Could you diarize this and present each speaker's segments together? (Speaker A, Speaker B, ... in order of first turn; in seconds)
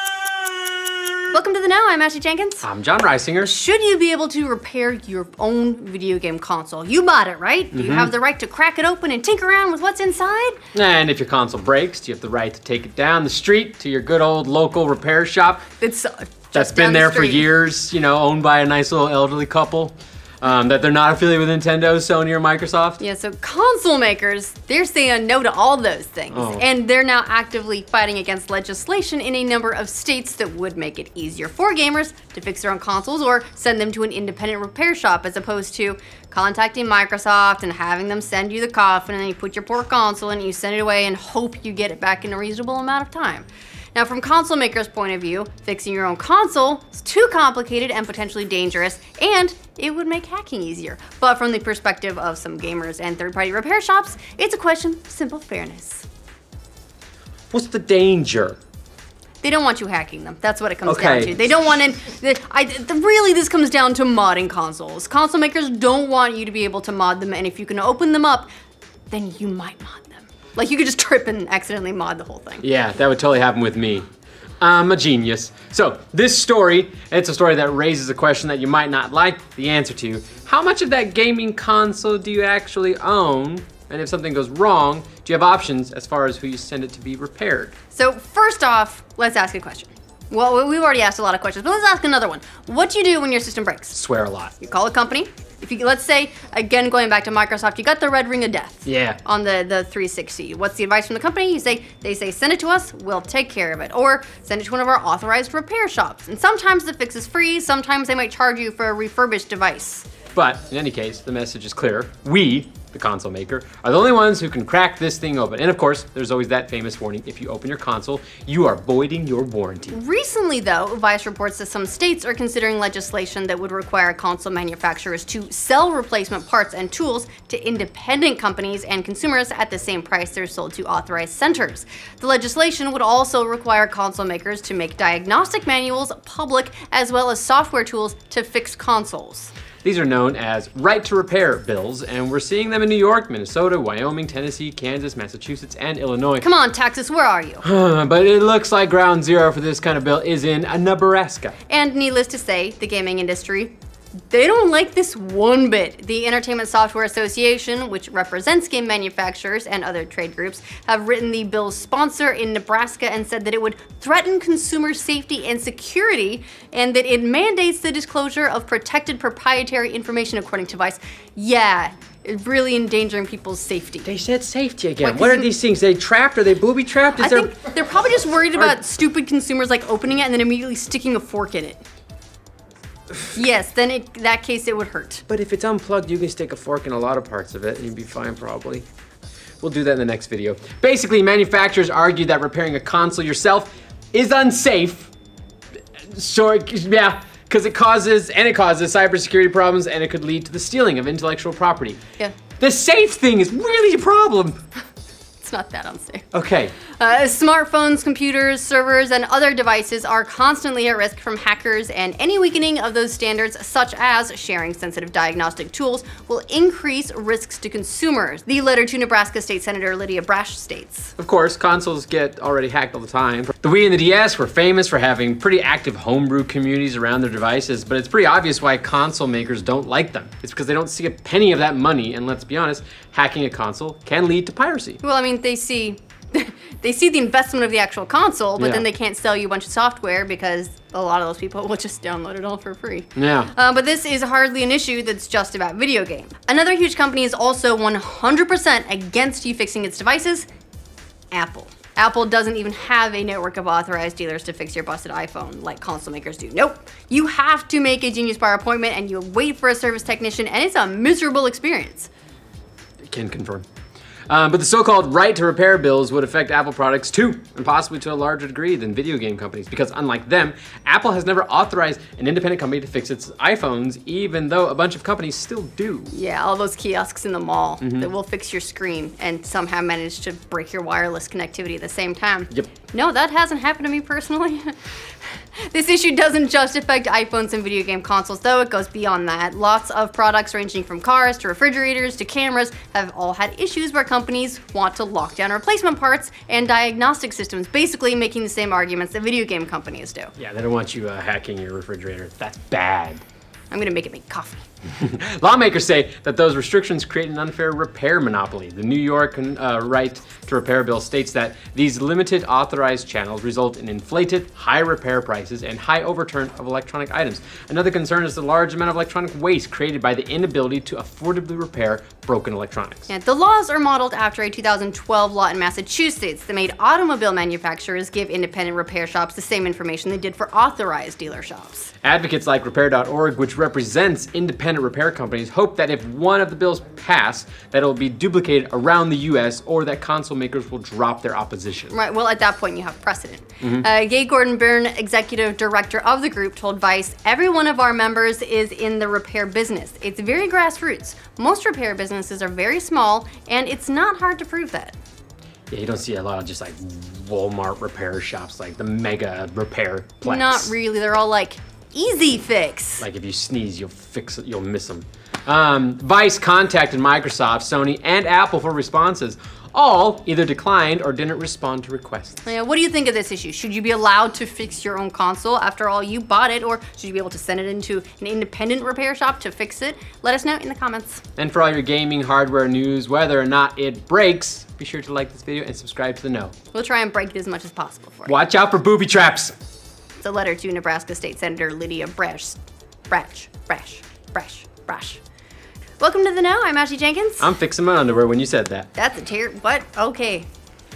Speaker A: 1.3-2.6, 3.4-10.6, 15.8-17.5, 23.0-56.0, 59.4-68.5, 69.1-72.6, 87.9-94.0, 94.6-110.1, 119.9-139.5, 146.4-147.6, 151.7-153.7, 154.3-174.1, 175.0-175.5, 177.2-181.8, 183.3-185.2, 205.4-206.2, 206.9-221.1, 235.0-250.5, 251.3-262.1, 276.1-284.7, 285.5-300.3, 303.7-304.6, 323.1-331.9, 341.9-354.9, 360.2-363.0, 372.4-381.2, 386.7-388.3, 390.2-395.2, 396.0-397.5, 398.9-400.5
Speaker B: 2.6-3.5, 7.7-8.1, 10.7-15.6, 16.5-23.0, 26.3-26.6, 57.5-58.6, 60.9-61.4, 72.6-74.0, 74.6-87.7, 93.9-94.5, 98.8-99.2, 110.3-120.0, 139.8-146.5, 147.6-151.6, 174.0-177.5, 185.3-188.8, 189.6-195.1, 196.1-202.0, 202.6-204.6, 206.3-206.7, 221.2-235.0, 238.6-238.8, 243.2-243.5, 263.1-263.6, 264.3-276.1, 277.8-278.1, 300.4-303.2, 304.8-323.1, 332.0-341.9, 343.6-343.9, 355.7-360.7, 363.0-372.4, 381.4-386.5, 388.3-389.5, 397.4-398.9